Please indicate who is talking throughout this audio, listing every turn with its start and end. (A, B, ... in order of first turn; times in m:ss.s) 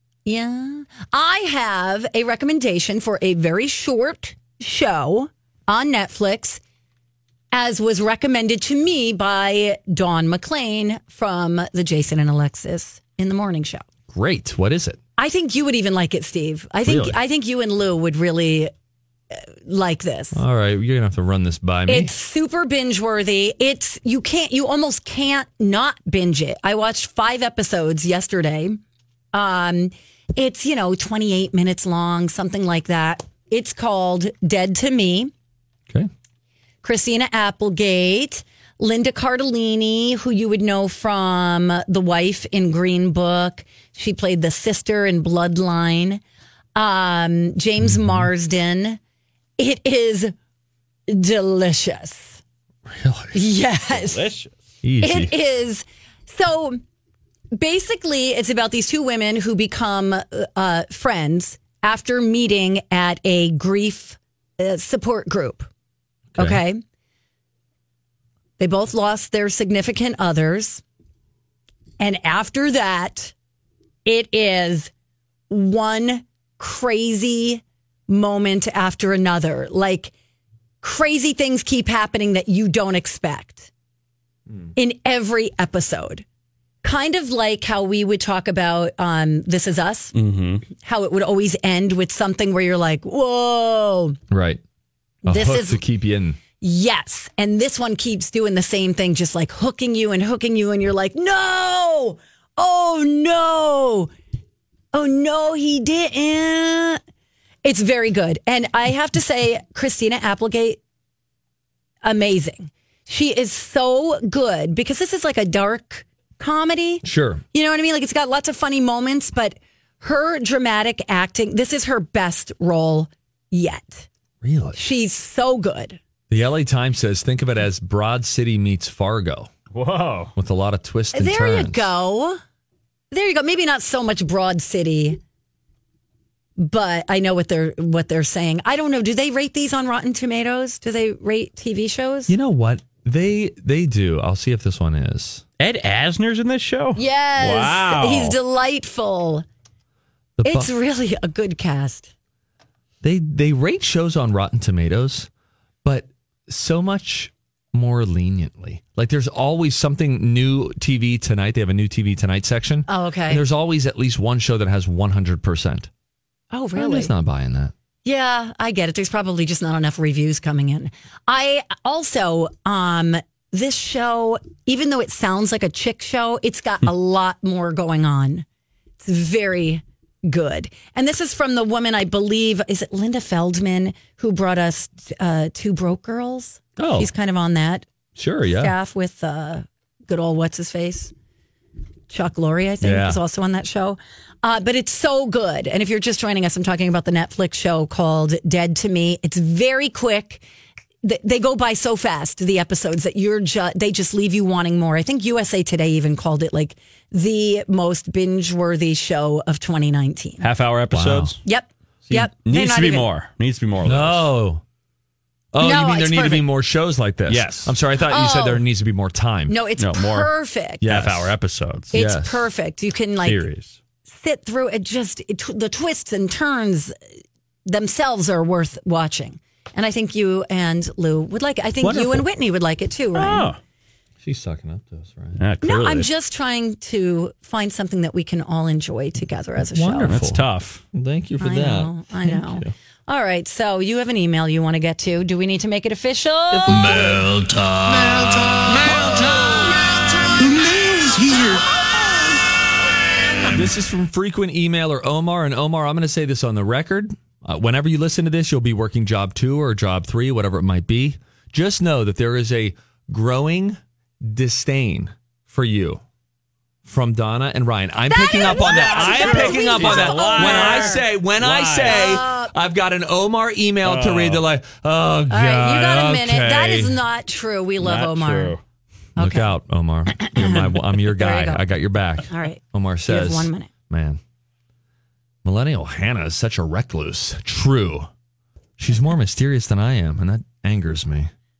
0:00.2-0:06.6 A
0:07.5-0:13.8 A
0:14.1-0:15.0 B
0:15.2-0:18.7 A
0:16.8-0:17.2 B
0:19.3-0:20.4 A
0:20.3-0:22.1 B
0:21.9-0:28.8 A
0:29.3-0:35.3 A
0:36.8-0:46.2 A
0:46.8-0:49.0 A
0:47.9-0:48.3 B
0:49.6-0:50.3 A
0:51.1-0:52.4 A
0:52.9-0:53.4 B
0:53.3-0:54.3 A
0:53.9-0:54.6 C
0:54.8-0:55.3 B
0:55.0-0:56.8 A
0:57.6-1:05.7 A
1:06.4-1:06.6 B
1:06.4-1:06.8 A
1:08.6-1:10.8 A
1:12.0-1:13.3 A
1:14.0-1:14.9 A
1:15.5-1:20.1 A
1:20.8-1:23.7 A
1:24.8-1:26.2 A
1:26.8-1:30.1 A
1:30.1-1:30.6 C
1:30.7-1:34.2 A
1:34.3-1:34.6 B
1:35.2-1:35.8 A
1:35.2-1:36.4 B
1:36.6-1:44.1 A
1:44.9-1:47.0 A
1:47.6-1:50.8 A
1:52.0-2:04.1 A
1:57.0-1:57.4 B
2:04.4-2:04.8 B
2:04.7-2:06.0 A
2:06.3-2:09.5 B
2:09.7-2:10.3 C
2:10.4-2:11.9 B
2:11.1-2:12.4 A
2:13.1-2:15.2 A
2:16.6-2:22.3 A
2:22.3-2:25.4 B
2:25.6-2:28.4 C
2:27.0-2:29.4 A
2:30.4-2:30.7 B
2:30.4-2:32.1 A
2:33.0-2:35.3 B
2:35.8-2:45.9 B
2:42.9-2:43.4 A
2:46.5-2:47.1 A
2:46.8-2:47.7 B
2:48.0-2:58.4 A
2:59.0-3:07.9 A
3:06.8-3:07.1 B
3:08.2-3:08.7 B
3:08.5-3:11.1 A
3:12.1-3:20.4 A
3:12.8-3:13.2 B
3:21.0-3:30.5 A
3:30.4-3:31.4 C
3:30.9-3:31.3 B
3:31.4-3:33.1 A
3:32.1-3:34.3 C
3:33.8-3:34.6 B
3:35.5-3:39.6 B
3:35.6-3:36.5 A
3:37.3-3:37.7 C
3:38.1-3:38.6 A
3:39.5-3:40.9 A
3:39.8-3:42.0 C
3:40.8-3:41.3 B
3:41.9-3:43.5 A
3:41.9-3:42.5 B
3:43.2-3:43.8 C
3:44.0-3:46.9 A
3:47.6-3:53.5 A
3:51.8-3:52.2 B
3:53.1-3:53.6 C
3:54.2-3:55.4 B
3:55.4-3:56.1 C
3:55.6-4:00.1 A
3:59.6-4:02.7 B
4:00.0-4:00.8 C
4:01.4-4:07.0 A
4:06.5-4:09.4 B
4:10.9-4:11.4 C
4:13.5-4:26.0 B
4:26.8-4:37.0 B
4:28.1-4:31.0 A
4:28.4-4:32.2 C
4:31.8-4:32.5 A
4:33.8-4:34.4 C
4:35.3-4:38.6 A
4:37.8-4:38.6 C
4:39.2-4:39.5 A
4:39.2-4:44.2 B
4:40.1-4:41.6 A
4:42.2-4:43.7 A
4:45.4-4:48.1 B
4:48.8-4:51.3 B